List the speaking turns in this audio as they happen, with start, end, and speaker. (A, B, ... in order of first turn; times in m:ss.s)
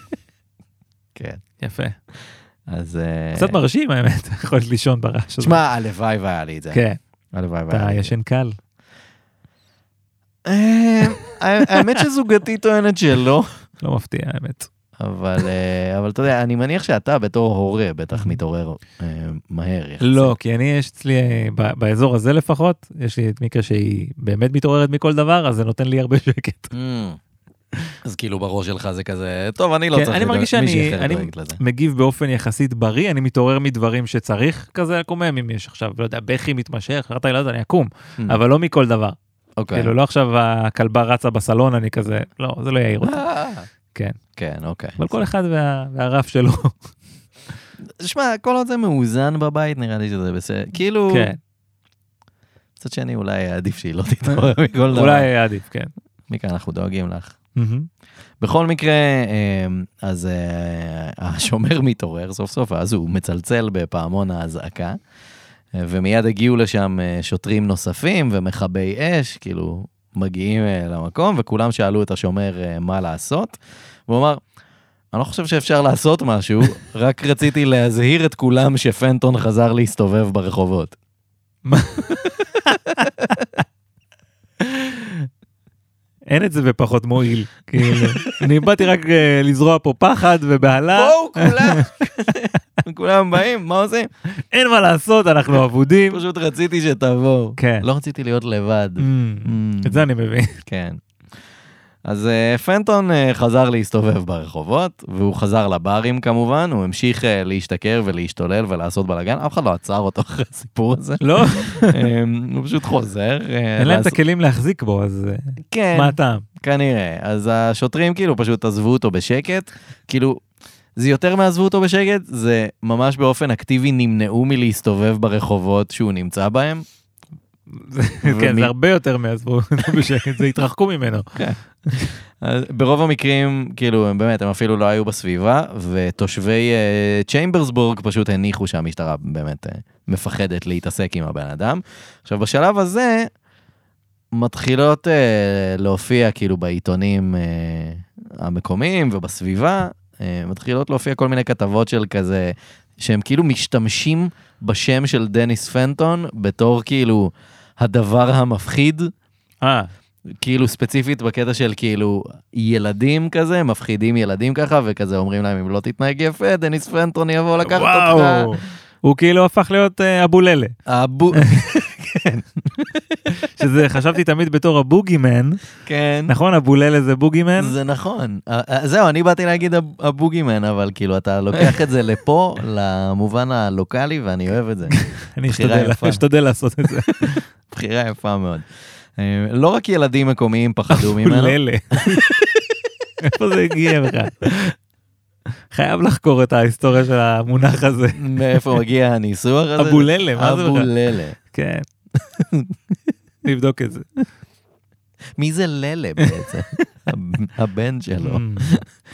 0:01.1-0:01.4 A
0:01.6-0:02.0 B
0:02.7-0:03.6 A
0:03.3-0:05.6 B
0:05.4-0:06.8 A
0:06.7-0:07.0 B
0:07.3-0:08.1 A
0:07.7-0:08.6 B
0:10.4-0:13.5 A
0:11.7-0:12.0 B
0:13.8-0:14.7 B
0:15.0-0:20.3 A
0:20.0-0:26.7 B
0:26.7-0:27.2 A
0:28.0-0:31.6 A
0:29.9-0:39.2 B
0:39.6-0:39.9 A
0:39.7-0:43.2 B
0:43.0-0:43.7 A
0:44.4-0:45.2 A
0:45.0-0:46.8 B
0:48.0-0:51.3 A
0:51.1-0:51.4 B
0:52.8-0:55.3 A
0:54.9-0:55.9 B
0:56.3-0:57.3 A
0:57.6-0:57.9 B
0:58.4-1:05.0 A
1:05.7-1:14.4 A
1:15.1-1:21.0 A
1:21.6-1:23.1 B
1:22.9-1:23.4 A
1:24.6-1:25.2 B
1:26.3-1:31.9 B
1:27.8-1:28.5 A
1:30.9-1:34.1 A
1:34.4-1:36.2 B
1:36.1-1:40.1 A
1:37.6-1:37.9 B
1:39.0-1:40.6 B
1:40.6-1:41.0 A
1:42.0-1:54.2 A
1:51.2-1:52.1 B
1:53.8-1:56.4 B
1:55.6-2:00.4 A
2:01.0-2:06.8 A
2:07.7-2:11.3 B
2:08.2-2:08.7 A
2:11.9-2:12.1 B
2:12.4-2:23.3 A
2:24.3-2:39.1 A
2:39.6-2:39.9 B
2:40.4-2:48.6 A
2:47.6-2:50.7 B
2:50.8-2:53.3 A
2:53.3-2:55.6 B
2:55.8-2:56.3 A
2:56.3-2:57.7 B
2:57.6-3:05.0 A
3:04.9-3:07.4 B
3:05.5-3:06.2 A
3:07.3-3:12.8 A
3:10.9-3:12.2 B
3:13.2-3:14.7 B
3:15.7-3:18.8 B
3:18.1-3:21.3 A
3:19.8-3:20.9 B
3:21.4-3:21.8 B
3:22.2-3:22.8 A
3:23.4-3:24.2 B
3:25.4-3:28.8 A
3:28.2-3:28.8 B